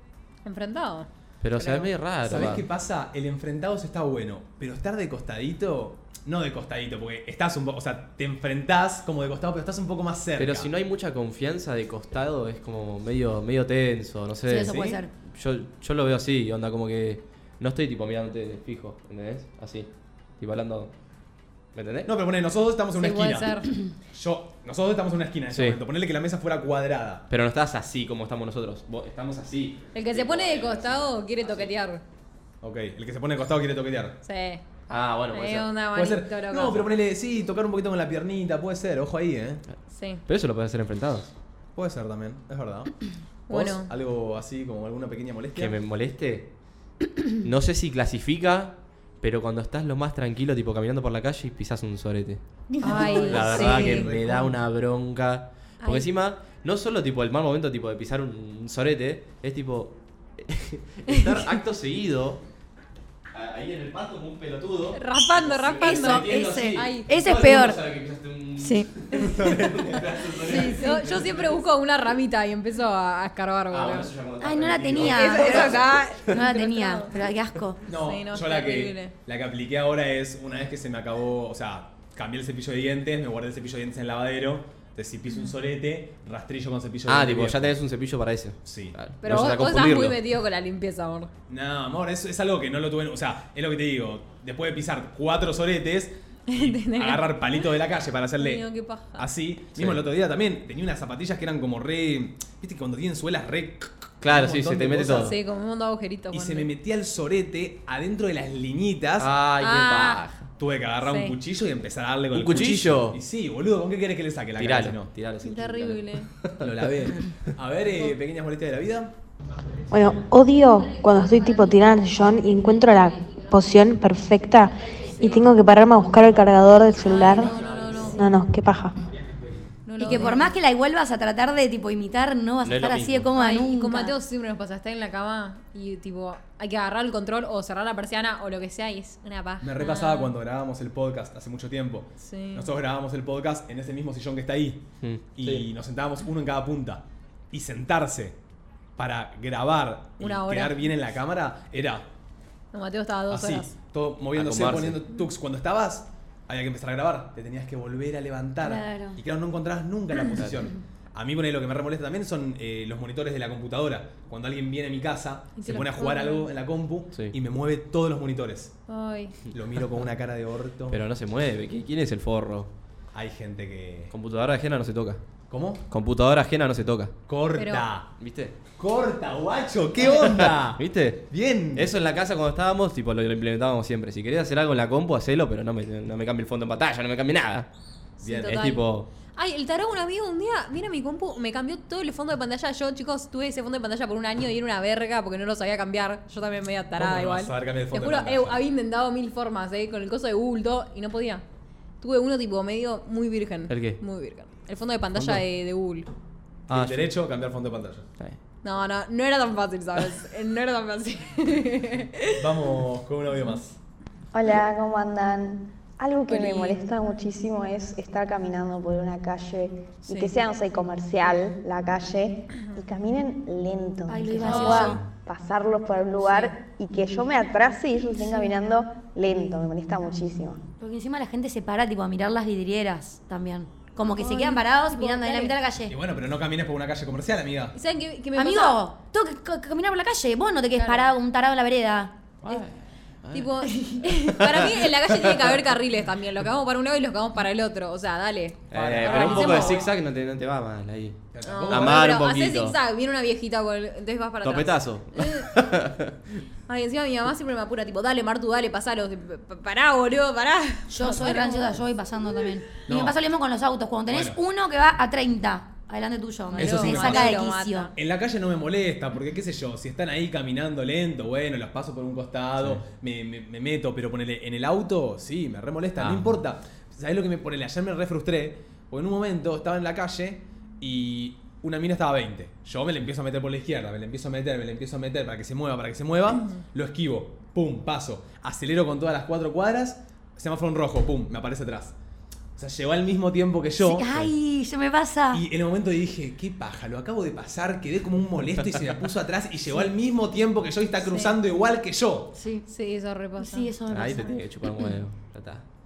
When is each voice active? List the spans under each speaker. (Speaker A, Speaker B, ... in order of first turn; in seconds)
Speaker A: 0.4-1.9, 23.0-23.7, 29.9-32.0, 34.2-34.6, 35.3-36.9, 39.9-40.2, 43.5-43.9, 52.8-54.0, 64.9-67.1, 70.5-74.1, 75.0-77.1, 77.9-79.1, 89.2-91.3, 96.5-97.6, 98.4-99.3, 105.1-106.7, 109.6-110.2, 111.0-111.3, 115.4-116.3, 127.0-128.2, 129.8-130.5, 133.3-140.3, 142.2-142.6, 150.2-150.9, 152.7-153.7, 165.6-166.5, 168.9-169.3, 177.6-177.8, 188.2-188.8, 189.3-201.4, 202.0-206.1, 208.6-212.4, 216.3-216.8, 220.1-220.3, 224.4-225.0, 226.2-226.5, 234.2-235.5, 237.7-238.8, 240.7-241.1, 243.3-249.8, 251.4-255.5, 256.7-261.8, 266.5-267.9, 301.0-301.3, 302.7-303.7
Speaker B: 1.4-2.6, 10.4-20.9, 21.7-22.1, 25.5-25.8, 27.3-31.1, 34.9-35.7, 40.2-41.3, 45.5-46.5, 47.4-62.4, 63.3-71.4, 73.7-76.3, 87.1-90.2, 99.7-100.0, 104.2-105.4, 109.2-110.5, 112.3-113.2, 114.6-117.1, 132.6-133.3, 145.0-145.7, 154.3-155.0, 170.9-172.7, 174.1-175.2, 175.9-177.2, 178.2-178.6, 180.0-187.7, 188.4-189.1, 203.7-204.0, 205.2-205.4, 206.7-207.1, 242.4-245.4, 248.7-252.8, 254.4-256.1, 276.0-276.3, 303.9-305.6
Speaker C: 2.2-10.7, 22.0-23.6, 24.1-27.3, 32.6-34.2, 35.9-39.6, 41.7-45.7, 52.7-54.5, 69.2-70.3, 77.9-87.8, 88.6-89.0, 91.5-105.4, 106.3-109.3, 110.6-115.1, 116.6-119.1, 139.6-148.4, 148.9-152.1, 153.3-168.8, 169.5-171.0, 173.1-174.1, 175.5-175.8, 177.3-178.1, 178.8-181.9, 188.2-188.5, 196.9-198.6, 206.7-208.1, 212.4-213.8, 235.9-237.8, 248.7-250.0, 251.3-252.1, 262.9-263.2, 264.1-264.4, 266.6-267.4, 267.9-291.9, 292.6-294.2, 295.3-302.4
Speaker D: 14.5-15.1, 53.0-53.3, 65.8-67.8, 68.6-68.9, 70.5-70.9, 74.4-77.8, 130.0-134.1, 158.6-159.2, 224.1-225.0, 230.8-235.9, 238.3-242.2, 260.9-267.9, 293.8-295.4, 302.3-302.6, 303.4-304.9
Speaker E: 119.9-127.5, 128.1-129.0
Speaker F: 214.3-230.6